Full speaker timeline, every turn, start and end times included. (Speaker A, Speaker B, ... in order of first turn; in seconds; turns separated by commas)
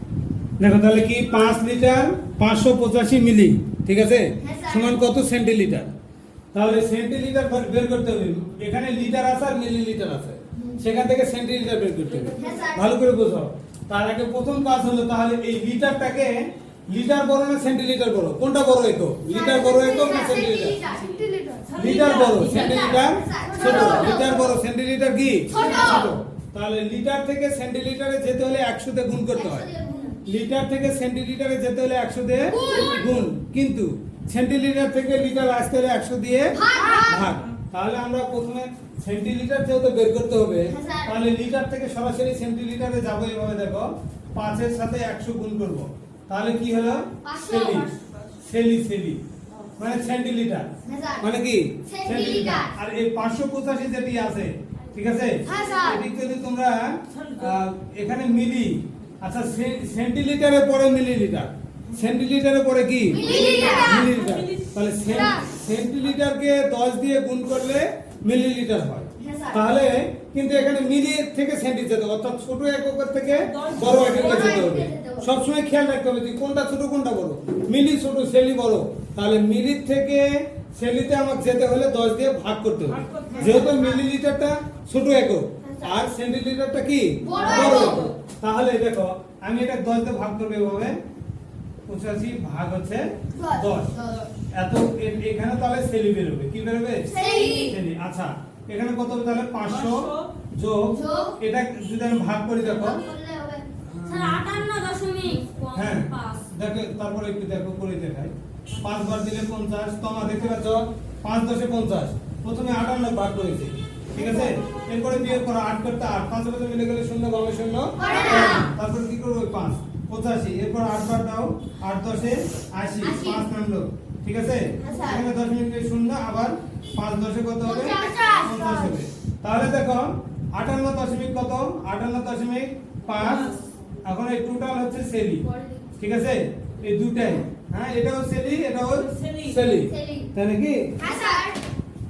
Speaker A: 0.6-5.9, Speaker B: 4.4-5.0, Speaker A: 6.5-20.8, Speaker B: 10.5-10.8, Speaker C: 12.2-12.6, Speaker B: 12.3-12.9, Speaker B: 19.3-21.2, Speaker C: 21.0-22.8, Speaker A: 21.8-29.7, Speaker B: 22.4-24.5, Speaker C: 23.5-24.2, Speaker B: 25.5-26.1, Speaker B: 29.3-30.2, Speaker A: 30.2-49.2, Speaker B: 32.5-33.1, Speaker B: 36.5-37.3, Speaker C: 36.8-37.0, Speaker B: 40.7-41.2, Speaker B: 47.0-48.0, Speaker A: 49.8-91.0, Speaker B: 50.8-51.3, Speaker B: 51.8-52.7, Speaker B: 55.4-56.0, Speaker C: 57.1-57.5, Speaker B: 61.9-62.1, Speaker B: 63.1-64.1, Speaker C: 63.2-64.6, Speaker B: 65.1-65.5, Speaker B: 69.2-69.7, Speaker C: 73.3-74.5, Speaker B: 74.0-75.3, Speaker C: 82.9-83.7, Speaker B: 83.3-84.0, Speaker B: 85.7-86.0, Speaker B: 87.2-88.1, Speaker C: 87.4-88.1, Speaker A: 91.9-94.0, Speaker B: 93.3-94.3, Speaker A: 94.5-103.0, Speaker B: 97.1-97.8, Speaker C: 97.2-97.6, Speaker C: 99.7-100.3, Speaker B: 100.9-101.4, Speaker B: 102.6-103.7, Speaker A: 103.8-104.5, Speaker C: 104.1-105.9, Speaker A: 105.7-133.5, Speaker B: 114.1-114.5, Speaker B: 118.0-118.7, Speaker B: 123.0-123.5, Speaker B: 124.8-125.3, Speaker B: 127.6-129.0, Speaker C: 133.2-133.6, Speaker A: 134.0-135.4, Speaker A: 135.9-141.0, Speaker C: 139.1-139.7, Speaker B: 139.8-140.3, Speaker B: 141.0-141.6